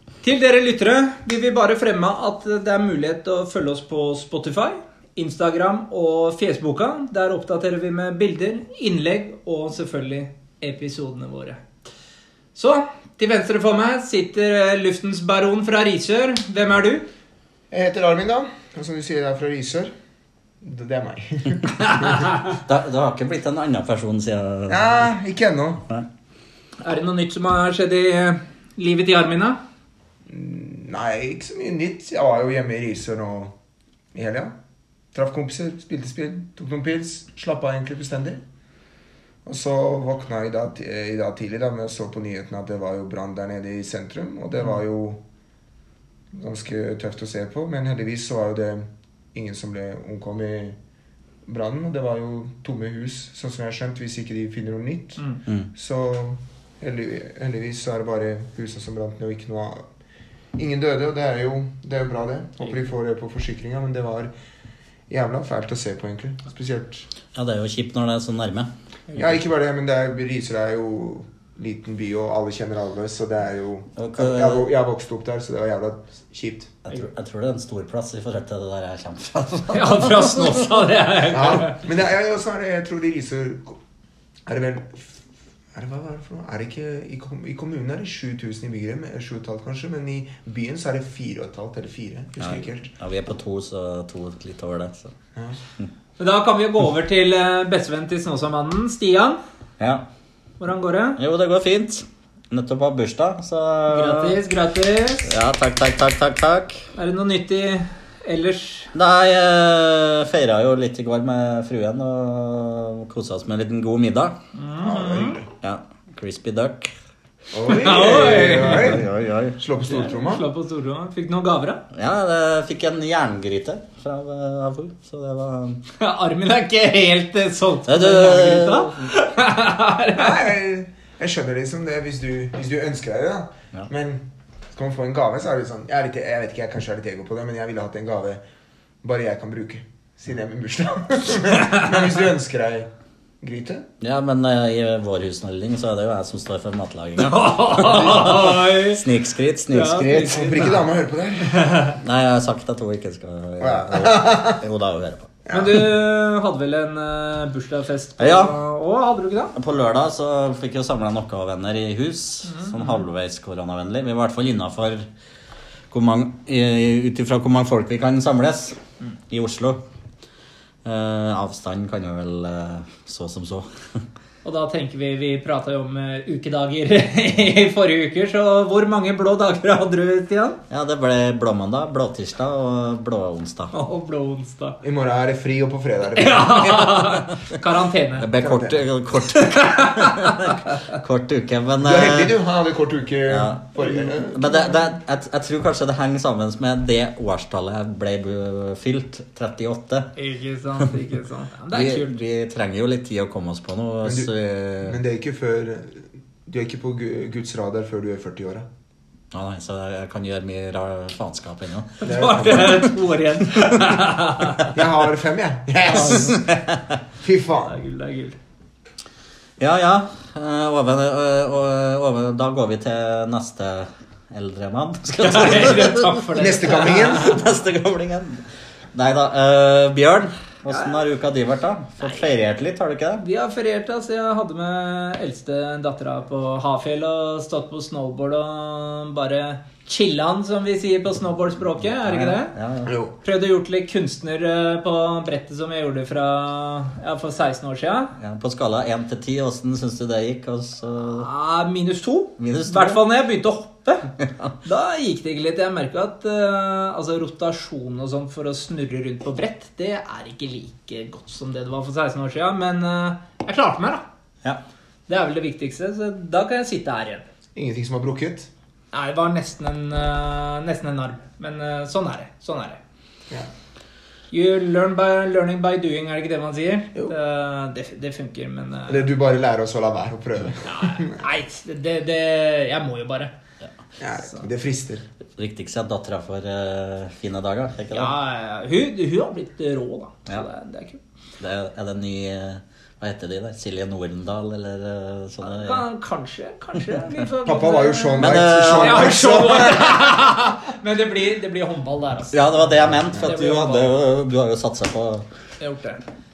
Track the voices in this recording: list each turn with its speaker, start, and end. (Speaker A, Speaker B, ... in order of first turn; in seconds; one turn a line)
Speaker A: 0.2-11.6
Speaker A: 12.6-17.1
Speaker B: 17.7-19.9
Speaker B: 20.6-22.3
Speaker A: 22.0-22.3
Speaker C: 22.4-25.1
Speaker B: 24.7-25.8
Speaker A: 26.8-29.6
Speaker B: 30.3-33.5
Speaker B: 34.1-34.5
Speaker B: 35.1-38.4
Speaker B: 39.5-45.2
Speaker B: 46.3-50.8
Speaker B: 51.5-55.2
Speaker B: 55.7-59.9
Speaker B: 60.6-64.3
Speaker B: 65.1-67.1
Speaker C: 67.3-68.7
Speaker B: 69.1-76.7
Speaker C: 74.0-74.7
Speaker C: 76.8-80.7
Speaker A: 79.7-81.8
Speaker B: 81.3-83.8
Speaker B: 84.5-92.9
Speaker C: 92.4-95.1
Speaker A: 96.2-99.4
Speaker C: 99.8-100.1
Speaker A: 100.6-101.2
Speaker C: 101.2-104.4
Speaker A: 103.9-105.3
Speaker C: 105.3-106.8
Speaker A: 107.0-108.9
Speaker C: 109.0-114.4
Speaker A: 114.5-115.4
Speaker B: 114.8-115.5
Speaker C: 115.6-116.9
Speaker B: 117.5-120.4
Speaker A: 117.7-119.0
Speaker C: 118.1-119.6
Speaker A: 119.8-121.8
Speaker C: 121.9-125.8
Speaker A: 126.0-130.4
Speaker C: 127.9-129.1
Speaker B: 130.2-138.4
Speaker B: 139.0-142.9
Speaker A: 141.6-141.9
Speaker B: 143.4-143.8
Speaker C: 144.0-150.7
Speaker A: 147.2-149.0
Speaker A: 149.7-150.7
Speaker B: 150.2-151.6
Speaker A: 151.4-152.0
Speaker C: 152.0-155.4
Speaker B: 153.6-154.6
Speaker B: 155.5-155.8
Speaker A: 155.5-159.5
Speaker C: 158.2-158.5
Speaker C: 159.6-165.1
Speaker A: 162.5-163.0
Speaker C: 165.9-168.8
Speaker C: 169.3-169.8
Speaker C: 170.8-173.7
Speaker A: 174.4-180.6
Speaker C: 180.7-183.7
Speaker A: 183.7-184.8
Speaker B: 184.8-186.6
Speaker A: 186.2-188.3
Speaker C: 186.8-187.3
Speaker C: 188.2-192.3
Speaker B: 188.4-188.8
Speaker A: 189.3-191.0
Speaker B: 191.8-194.7
Speaker C: 193.3-200.1
Speaker A: 200.2-202.1
Speaker C: 201.7-205.0
Speaker B: 204.0-208.7
Speaker C: 209.3-212.9
Speaker A: 212.0-214.8
Speaker B: 212.0-212.9
Speaker C: 213.5-213.9
Speaker B: 214.7-216.4
Speaker A: 215.9-216.4
Speaker C: 216.1-216.8
Speaker B: 217.2-217.7
Speaker A: 217.6-218.4
Speaker C: 219.6-228.4
Speaker A: 225.2-227.4
Speaker B: 226.4-227.4
Speaker C: 228.9-233.2
Speaker A: 230.7-231.0
Speaker A: 232.0-232.3
Speaker A: 233.2-242.5
Speaker C: 241.8-242.9
Speaker B: 242.9-243.1
Speaker A: 243.2-248.1
Speaker C: 248.2-251.3
Speaker A: 251.1-254.1
Speaker C: 252.4-253.0
Speaker A: 254.6-264.1
Speaker A: 265.1-267.2
Speaker B: 267.6-268.5
Speaker A: 268.9-272.8
Speaker A: 274.3-279.1
Speaker B: 278.9-281.2
Speaker A: 280.6-283.3
Speaker B: 284.0-285.0
Speaker C: 285.4-288.1
Speaker A: 287.9-291.0
Speaker C: 291.4-295.8
Speaker A: 295.4-303.9
Speaker B: 297.4-300.1
Speaker C: 298.2-299.6
Speaker C: 302.3-305.3
Speaker A: 305.6-306.0